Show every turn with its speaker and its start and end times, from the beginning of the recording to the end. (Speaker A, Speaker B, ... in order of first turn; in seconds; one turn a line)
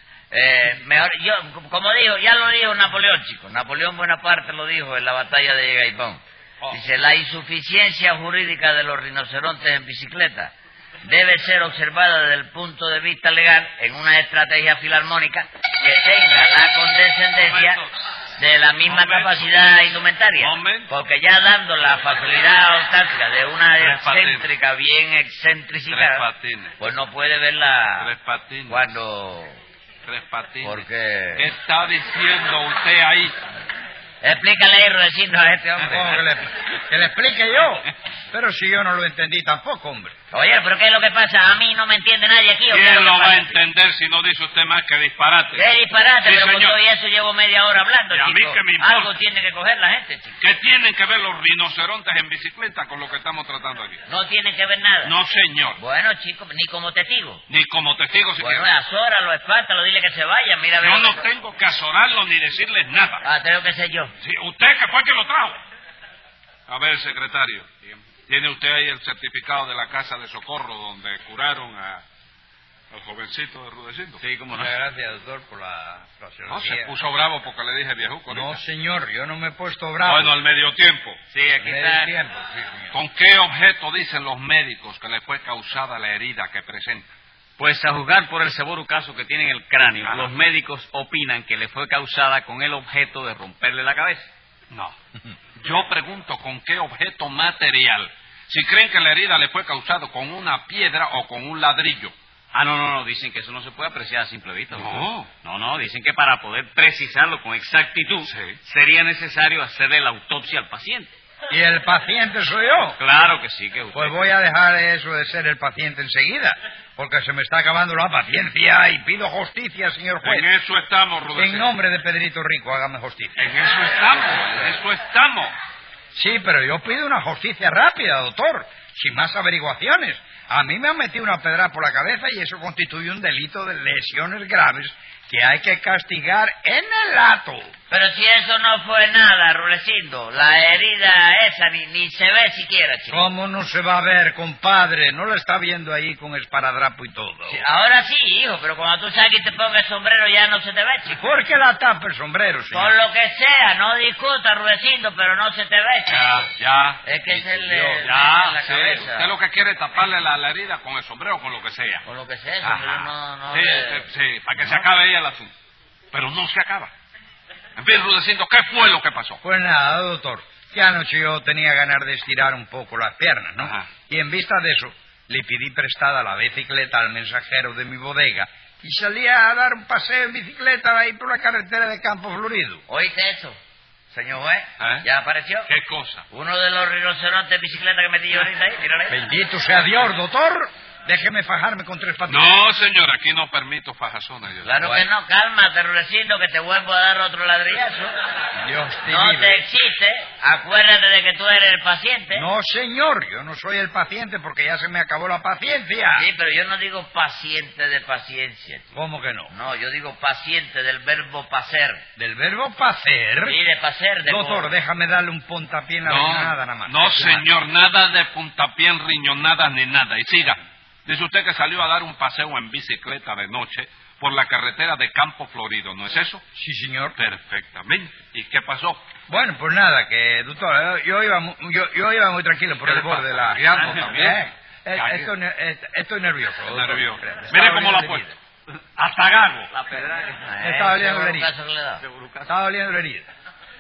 Speaker A: 0.3-10.5
Speaker A: 11.0-17.8
Speaker B: 17.4-17.9
Speaker A: 18.4-26.3
Speaker B: 18.9-19.6
Speaker B: 20.4-20.9
Speaker B: 23.8-24.5
Speaker B: 25.9-26.8
Speaker A: 26.8-28.1
Speaker B: 28.0-28.9
Speaker A: 28.7-29.6
Speaker B: 30.1-33.4
Speaker A: 30.6-31.5
Speaker A: 34.2-36.2
Speaker C: 35.8-40.1
Speaker A: 40.3-43.6
Speaker B: 42.7-45.7
Speaker A: 45.5-50.4
Speaker B: 46.2-46.8
Speaker B: 48.1-49.2
Speaker B: 50.4-54.0
Speaker A: 54.1-55.1
Speaker B: 55.0-55.8
Speaker A: 55.8-57.4
Speaker B: 57.5-58.7
Speaker A: 58.4-61.2
Speaker B: 60.8-63.2
Speaker A: 63.2-64.1
Speaker B: 64.2-65.6
Speaker B: 66.7-67.7
Speaker B: 68.3-72.0
Speaker B: 72.9-74.2
Speaker D: 74.2-74.7
Speaker C: 74.5-76.9
Speaker B: 76.5-78.6
Speaker C: 78.3-80.3
Speaker B: 80.0-81.2
Speaker D: 81.3-82.1
Speaker C: 81.6-82.9
Speaker B: 82.9-87.1
Speaker D: 87.6-94.3
Speaker B: 90.0-90.3
Speaker B: 94.7-94.9
Speaker B: 95.6-102.1
Speaker D: 102.5-111.1
Speaker B: 104.8-105.3
Speaker B: 108.2-108.6
Speaker C: 111.5-113.0
Speaker D: 113.0-114.2
Speaker C: 113.9-120.5
Speaker B: 120.2-121.7
Speaker C: 121.3-123.5
Speaker B: 123.4-125.5
Speaker C: 126.1-137.7
Speaker A: 137.9-143.2
Speaker C: 143.1-147.6
Speaker A: 147.5-151.2
Speaker C: 151.1-152.9
Speaker A: 152.7-156.5
Speaker B: 156.1-162.0
Speaker A: 157.0-159.3
Speaker A: 162.1-164.1
Speaker B: 162.6-165.5
Speaker C: 164.6-164.8
Speaker B: 166.1-166.9
Speaker B: 167.8-169.4
Speaker C: 169.4-182.8
Speaker B: 173.6-173.9
Speaker A: 182.9-183.6
Speaker A: 184.1-185.7
Speaker B: 184.8-185.1
Speaker B: 185.7-186.2
Speaker A: 186.3-189.2
Speaker C: 189.1-192.5
Speaker B: 192.3-194.7
Speaker A: 194.6-198.1
Speaker C: 194.8-195.1
Speaker C: 198.6-199.6
Speaker A: 199.1-202.4
Speaker C: 202.3-206.3
Speaker A: 206.2-208.8
Speaker C: 208.9-209.5
Speaker A: 209.5-212.0
Speaker C: 212.2-213.6
Speaker A: 213.4-214.8
Speaker C: 214.3-217.4
Speaker B: 216.1-226.4
Speaker C: 226.6-227.2
Speaker B: 227.2-229.0
Speaker C: 229.3-238.3
Speaker B: 232.8-234.4
Speaker B: 234.9-235.3
Speaker B: 236.7-238.3
Speaker B: 239.0-239.7
Speaker D: 239.7-240.5
Speaker A: 240.4-242.0
Speaker C: 240.6-241.5
Speaker D: 242.0-242.5
Speaker C: 242.4-243.3